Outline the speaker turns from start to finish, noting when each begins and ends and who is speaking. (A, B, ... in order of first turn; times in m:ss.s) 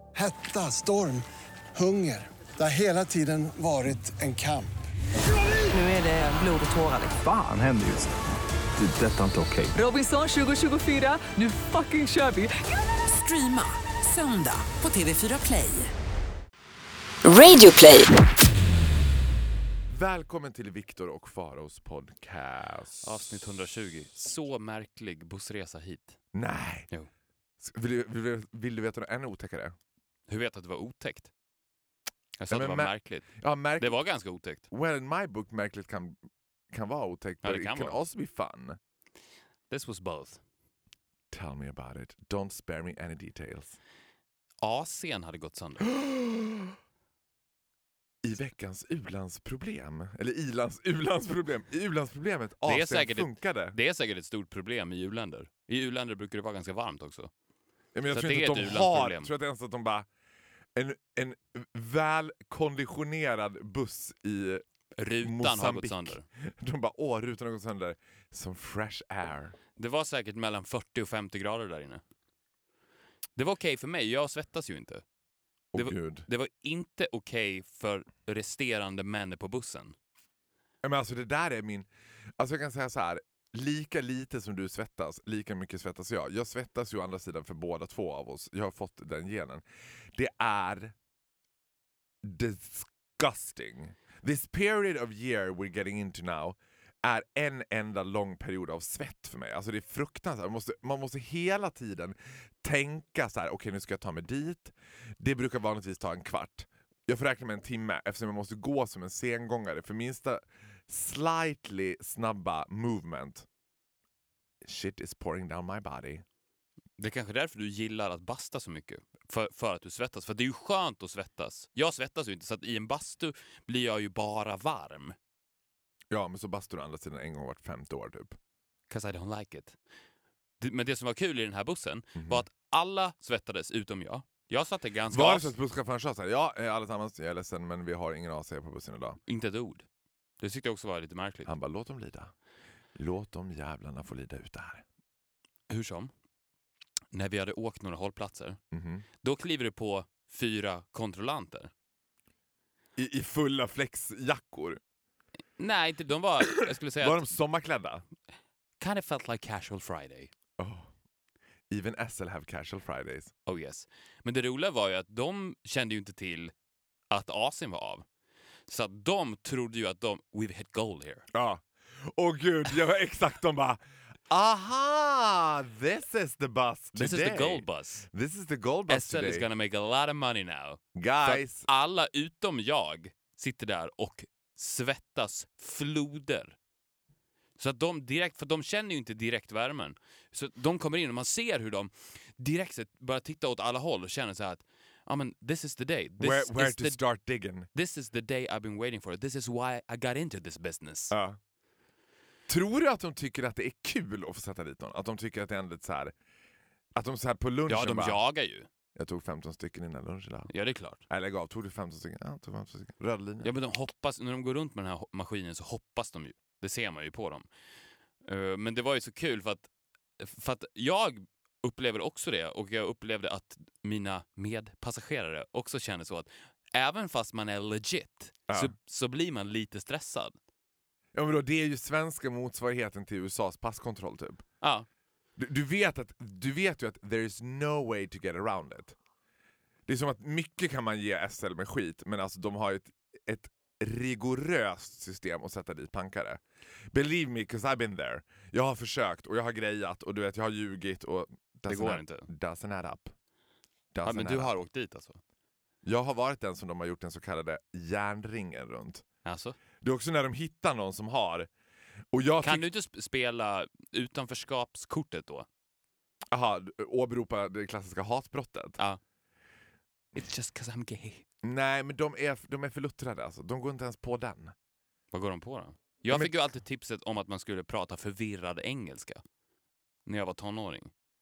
0:00.1-0:04.7 A
0:05.5-0:07.1 B
0:07.0-0:08.1 C
0:08.8-0:09.8 C
0:09.7-0:15.9 B
0:17.2-0:18.2 B
0:19.9-0:23.2 D
0:23.0-0:26.2 E
0:26.3-0:26.9 D
0:27.6-0:29.8 D
0:30.3-0:31.3 E
0:32.4-0:34.6 E
0:32.5-0:34.0 D
0:34.7-0:36.2 D
0:36.7-0:38.8 D
0:37.4-0:38.0 E
0:39.7-0:40.4 E
0:41.3-0:43.8 D
0:44.6-0:45.9 E
0:45.9-0:46.7 D
0:48.2-0:53.8 D
0:52.6-0:57.3 E
0:57.9-1:00.1 D
0:58.1-0:59.3 E
1:00.7-1:04.6 D
1:05.0-1:06.2 E
1:05.2-1:09.6 D
1:09.8-1:12.0 E
1:13.4-1:15.0 E
1:15.7-1:16.3 D
1:15.7-1:20.0 E
1:20.8-1:21.9 D
1:22.4-1:29.6 D
1:30.1-1:30.9 D
1:32.2-1:53.4 D
1:54.6-1:56.2 D
1:57.0-2:05.2 E
2:06.1-2:08.4 D
2:08.9-2:09.8 E
2:10.6-2:15.5 E
2:12.2-2:12.4 D
2:15.1-2:19.2 D
2:19.3-2:19.8 E
2:20.4-2:21.5 E
2:21.4-2:22.3 D
2:22.9-2:24.8 D
2:25.7-2:26.1 E
2:27.1-2:28.6 E
2:28.7-2:29.0 D
2:29.2-2:31.7 E
2:33.0-2:34.8 D
2:35.6-2:37.3 E
2:37.0-2:38.0 D
2:38.8-2:40.3 E
2:40.6-2:40.9 D
2:41.7-2:43.3 D
2:43.4-2:46.5 E
2:47.1-2:48.0 E
2:48.7-2:51.3 E
2:51.3-2:59.5 D
2:56.9-2:58.1 E
2:58.9-3:06.6 E
3:00.9-3:01.7 D
3:07.6-3:17.0 E
3:16.2-3:17.7 D
3:17.7-3:21.2 E
3:21.1-3:21.4 D
3:22.5-3:26.1 D
3:26.9-3:28.2 D
3:27.7-3:28.7 E
3:28.9-3:30.5 D
3:30.5-3:31.0 E
3:31.1-3:33.5 D
3:33.4-3:37.5 E
3:38.2-3:50.3 E
3:51.1-3:54.5 D
3:54.6-3:54.9 E
3:55.4-3:59.0 D
3:59.8-4:13.1 D
4:11.7-4:12.3 E
4:13.9-4:14.5 D
4:14.0-4:15.2 E
4:15.8-4:19.0 D
4:19.2-4:19.6 E
4:19.8-4:21.5 D
4:22.1-4:22.7 D
4:22.4-4:25.5 E
4:26.3-4:28.8 D
4:30.1-4:31.2 E
4:31.4-4:34.5 D
4:35.1-4:39.2 E
4:40.0-4:40.9 E